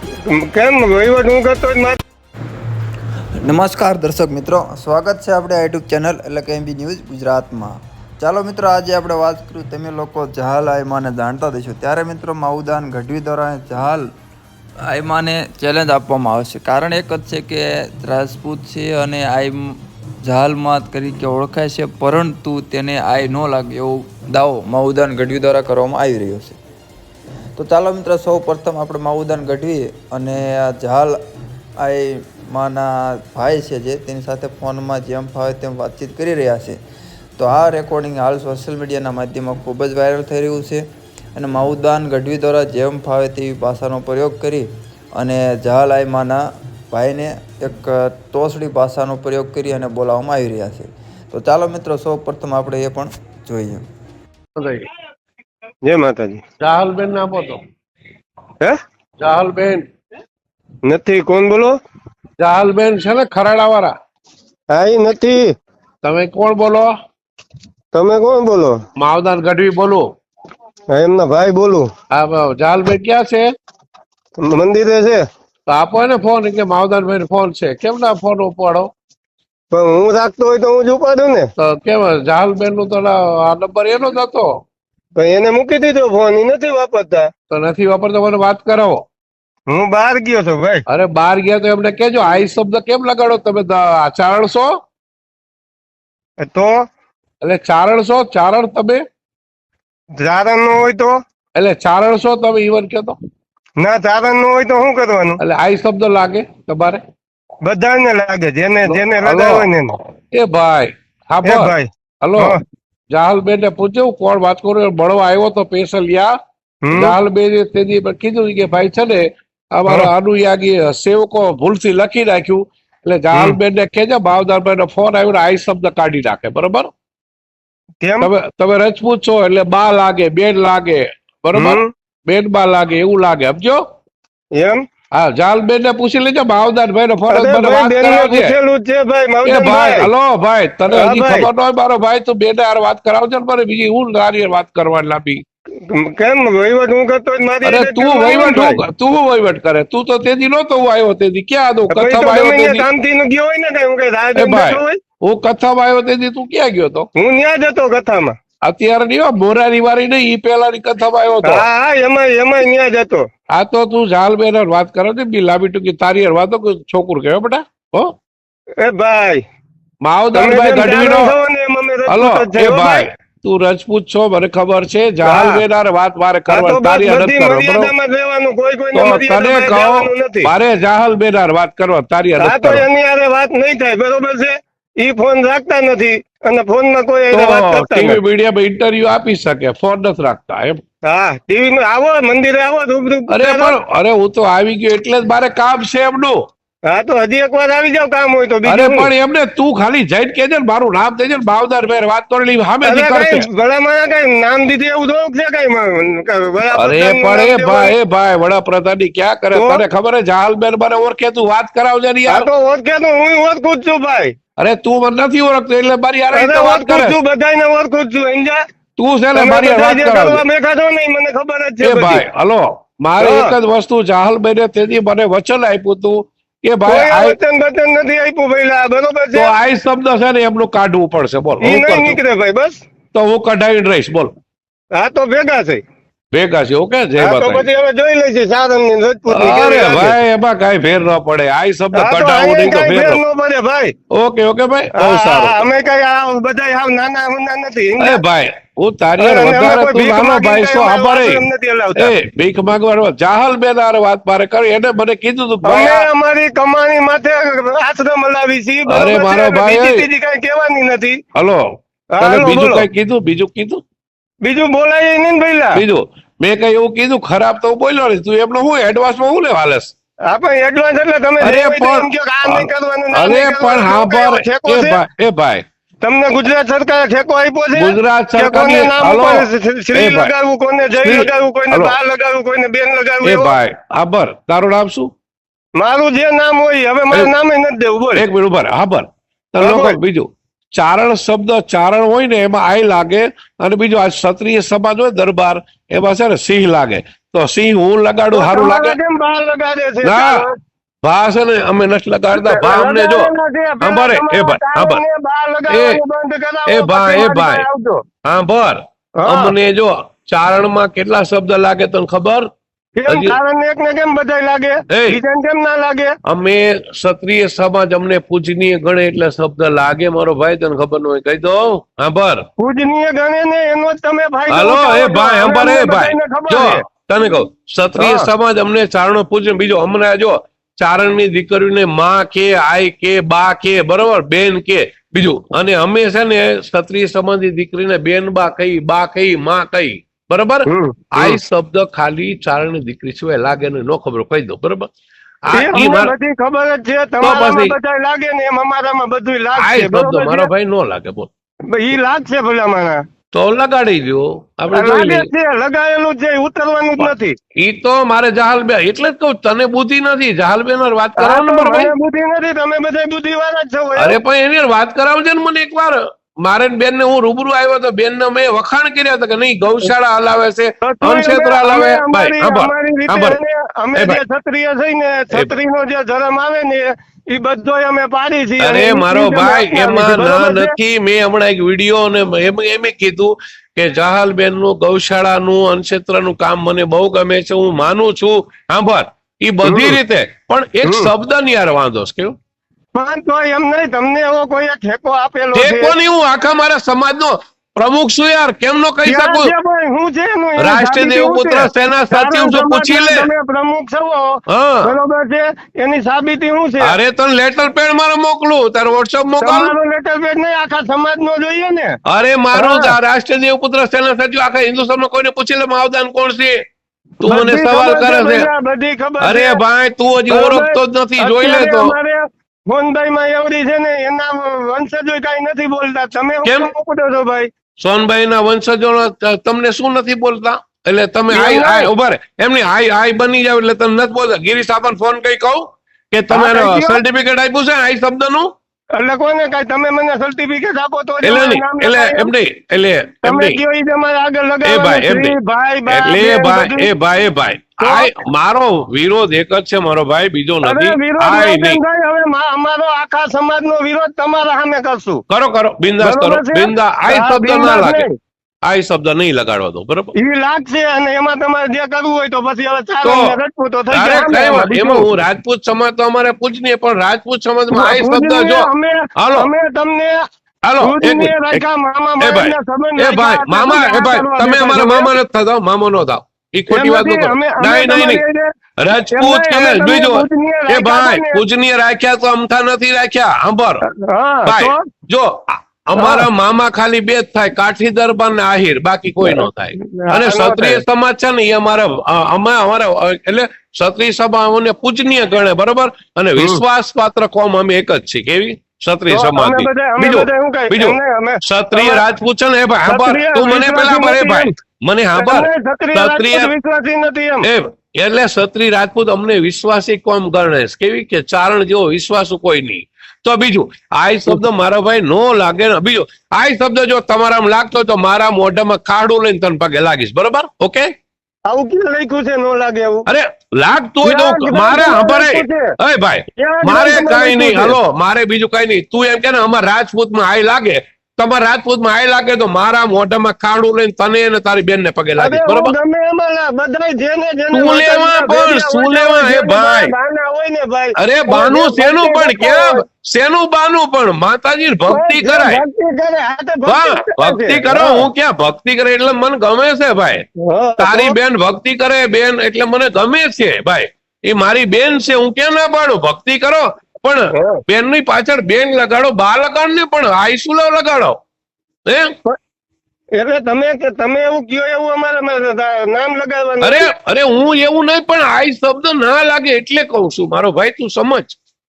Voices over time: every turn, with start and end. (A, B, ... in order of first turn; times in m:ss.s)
0:00.3-0:02.0 A
0:03.4-0:14.1 B
0:14.9-0:26.6 B
0:27.6-0:31.2 B
0:31.8-0:36.8 B
0:37.4-0:40.8 B
0:41.4-0:53.8 B
0:54.6-0:54.9 C
0:55.8-0:56.4 A
0:56.6-0:57.6 C
0:59.2-0:59.9 C
1:00.9-1:01.8 A
1:02.4-1:04.0 C
1:04.7-1:05.5 A
1:06.0-1:06.9 C
1:07.9-1:08.8 A
1:09.0-1:10.1 C
1:10.9-1:11.9 A
1:12.1-1:13.5 C
1:14.4-1:15.2 A
1:15.7-1:18.9 C
1:19.7-1:21.5 A
1:21.6-1:24.5 C
1:25.2-1:27.3 A
1:27.5-1:29.0 C
1:29.7-1:30.8 A
1:30.9-1:34.7 C
1:36.4-1:36.8 A
1:37.4-1:39.0 C
1:40.2-1:41.2 A
1:41.6-1:43.2 C
1:43.8-1:45.4 A
1:45.4-1:47.0 C
1:47.6-1:50.0 A
1:48.8-1:49.7 C
1:50.3-1:52.6 C
1:51.4-1:52.6 A
1:53.1-1:56.3 C
1:56.8-1:57.2 A
1:56.9-2:06.9 C
2:08.0-2:08.3 A
2:08.2-2:13.8 C
2:11.6-2:11.9 A
2:14.6-2:14.8 A
2:15.2-2:18.5 C
2:17.3-2:20.1 A
2:19.5-2:25.4 C
2:20.9-2:21.5 A
2:25.9-2:28.8 A
2:27.6-2:32.9 C
2:31.9-2:35.0 A
2:34.4-2:37.1 C
2:37.2-2:38.4 A
2:38.6-2:41.6 C
2:41.4-2:43.3 A
2:43.6-2:48.1 C
2:48.8-2:49.4 A
2:50.0-2:51.4 C
2:50.3-2:53.1 A
2:52.1-2:57.9 C
2:55.2-2:55.6 A
2:56.5-3:00.5 A
2:58.9-3:02.9 C
3:02.4-3:08.2 A
3:07.3-3:10.8 C
3:11.1-3:13.8 A
3:13.3-3:16.4 C
3:16.9-3:19.1 A
3:18.6-3:23.5 C
3:22.8-3:28.0 A
3:26.8-3:32.5 C
3:29.5-3:29.8 A
3:32.3-3:34.4 A
3:34.6-3:37.2 C
3:36.3-3:38.6 A
3:39.0-3:40.4 C
3:39.3-3:42.2 A
3:41.8-3:47.4 C
3:43.2-3:43.6 A
3:46.8-3:49.5 A
3:49.3-3:52.2 C
3:51.6-3:52.8 A
3:53.1-3:54.3 C
3:54.9-3:55.8 A
3:56.3-3:57.7 C
3:57.2-4:00.2 A
3:59.3-4:03.2 C
4:01.9-4:03.9 A
4:04.1-4:05.7 C
4:05.0-4:08.2 A
4:08.0-4:11.4 C
4:09.2-4:12.1 A
4:12.0-4:16.0 C
4:15.6-4:21.2 A
4:18.9-4:20.1 C
4:21.4-4:23.8 C
4:22.2-4:22.9 A
4:24.4-4:25.8 A
4:25.8-4:29.9 C
4:30.3-4:35.0 A
4:31.4-4:35.6 C
4:36.0-4:43.6 A
4:37.8-4:40.3 C
4:41.0-4:42.0 C
4:43.2-4:45.1 C
4:45.8-4:48.2 A
4:48.2-4:59.0 C
4:49.6-4:50.0 A
4:58.3-5:00.6 A
5:00.0-5:00.4 C
5:01.0-5:03.3 C
5:02.3-5:08.0 A
5:03.8-5:05.0 C
5:05.7-5:06.0 C
5:06.7-5:07.6 C
5:08.2-5:12.5 C
5:09.2-5:09.6 A
5:13.0-5:16.2 A
5:13.1-5:13.4 C
5:14.9-5:15.2 C
5:16.2-5:22.4 C
5:22.6-5:26.8 A
5:24.5-5:44.9 C
5:28.0-5:28.3 A
5:40.7-5:41.4 A
5:45.5-5:46.1 C
5:45.5-5:50.5 A
5:47.2-5:47.8 C
5:49.6-5:51.3 C
5:51.7-5:53.0 A
5:53.3-5:55.3 C
5:54.7-5:57.4 A
5:57.0-6:01.9 C
6:01.2-6:04.2 A
6:04.0-6:13.4 C
6:10.8-6:20.7 A
6:14.0-6:14.2 C
6:18.6-6:32.4 C
6:29.6-6:30.0 A
6:30.8-6:31.1 A
6:32.9-6:36.0 A
6:35.6-6:39.5 C
6:39.0-6:47.0 A
6:40.6-6:43.3 C
6:44.5-6:44.9 C
6:46.8-6:49.7 C
6:49.4-6:52.0 A
6:52.1-6:56.6 C
6:52.5-6:52.9 A
6:57.2-6:58.5 C
6:57.2-6:59.6 A
6:59.2-7:02.0 C
7:00.3-7:07.5 A
7:06.4-7:06.7 C
7:07.8-7:18.5 C
7:11.3-7:11.9 A
7:16.3-7:17.0 A
7:19.0-7:22.3 A
7:21.2-7:23.6 C
7:23.2-7:26.9 A
7:24.6-7:25.4 C
7:25.9-7:31.8 C
7:27.8-7:28.1 A
7:30.6-7:35.2 A
7:35.3-7:38.1 C
7:36.0-7:38.1 A
7:38.7-7:40.1 C
7:40.2-7:45.1 A
7:43.0-7:43.4 C
7:43.9-7:49.5 C
7:47.7-7:50.2 A
7:50.7-7:51.6 C
7:50.8-7:55.1 A
7:52.2-7:58.2 C
7:56.7-7:58.5 A
7:58.8-8:03.8 C
7:59.1-8:01.4 A
8:03.8-8:04.9 A
8:04.5-8:26.5 C
8:06.0-8:06.3 A
8:09.2-8:10.8 A
8:19.1-8:22.0 A
8:22.9-8:24.5 A
8:25.2-8:27.5 A
8:27.4-8:40.9 C
8:41.5-8:43.1 A
8:43.1-8:55.8 C
8:44.0-8:45.7 A
8:46.4-8:47.8 A
8:55.2-9:02.8 A
8:57.5-8:59.9 C
9:01.0-9:05.6 C
9:04.9-9:08.1 A
9:06.7-9:10.3 C
9:10.4-9:11.2 A
9:10.8-9:21.2 C
9:17.3-9:17.6 A
9:23.2-9:26.9 A
9:26.6-9:31.4 C